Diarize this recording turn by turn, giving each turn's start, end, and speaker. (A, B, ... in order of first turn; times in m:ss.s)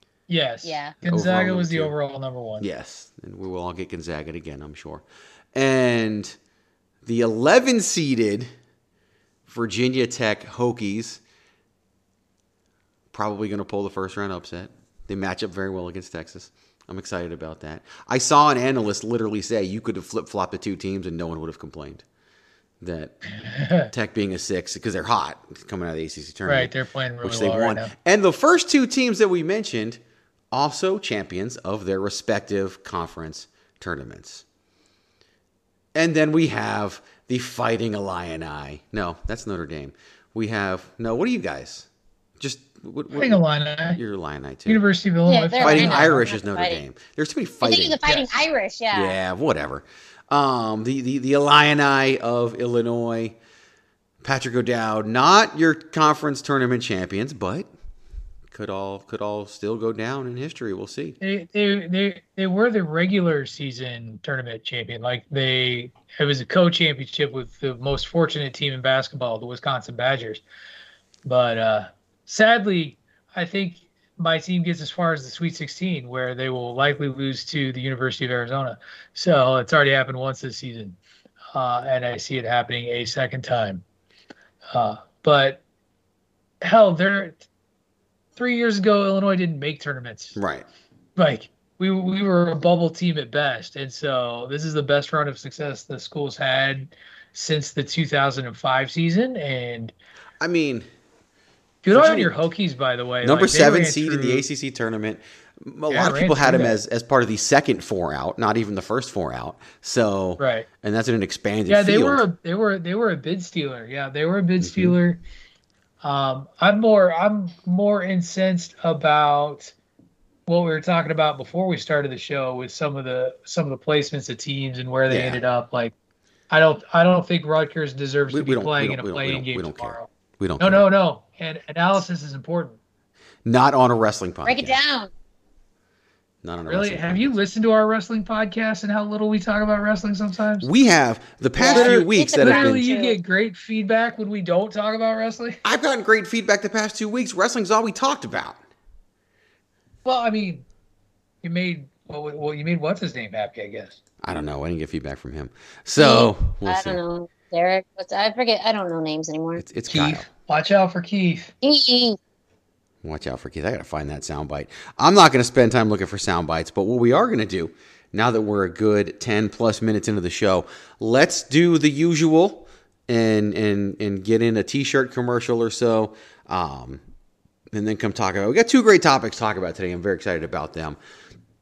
0:00.3-0:02.6 A
0:00.6-0:00.9 B
0:01.0-0:01.9 C
0:02.6-0:06.4 C
0:07.0-0:08.5 C
0:09.5-0:11.2 C
0:13.1-0:22.0 C
0:22.8-0:23.2 C
0:23.4-0:23.9 A
0:23.9-0:26.7 C
0:26.4-0:27.9 A
0:27.2-0:30.0 C
0:30.5-0:34.4 C
0:35.9-0:41.9 C
0:42.4-0:44.8 C
0:43.1-0:44.0 A
0:44.6-0:46.2 A
0:45.2-0:46.8 B
0:45.6-0:48.0 C
0:47.6-0:49.2 B
0:48.9-0:53.4 C
0:54.2-0:57.7 C
0:58.5-1:01.2 C
1:01.2-1:10.4 A
1:11.2-1:21.0 A
1:21.5-1:23.8 A
1:24.7-1:25.6 A
1:26.6-1:27.4 A
1:28.4-1:30.4 A
1:30.4-1:30.6 C
1:31.2-1:39.9 A
1:40.4-1:40.8 C
1:41.8-1:44.4 A
1:41.9-1:42.3 C
1:43.2-1:52.2 C
1:45.9-1:46.8 A
1:50.4-1:50.7 A
1:51.7-1:55.2 A
1:54.6-1:55.0 C
1:56.0-1:59.7 A
2:00.5-2:05.9 A
2:05.1-2:05.4 C
2:06.5-2:10.1 A
2:08.3-2:10.9 C
2:10.6-2:12.8 A
2:13.4-2:14.8 C
2:14.4-2:15.1 B
2:16.4-2:17.3 C
2:16.7-2:20.7 A
2:20.6-2:22.8 C
2:21.6-2:23.2 B
2:21.7-2:25.6 A
2:25.6-2:28.6 C
2:30.0-2:30.6 A
2:31.4-2:34.0 A
2:34.2-2:37.0 C
2:36.0-2:39.6 B
2:39.6-2:40.3 C
2:39.9-2:41.5 A
2:41.6-2:42.2 B
2:43.0-2:57.0 C
2:57.7-3:01.0 C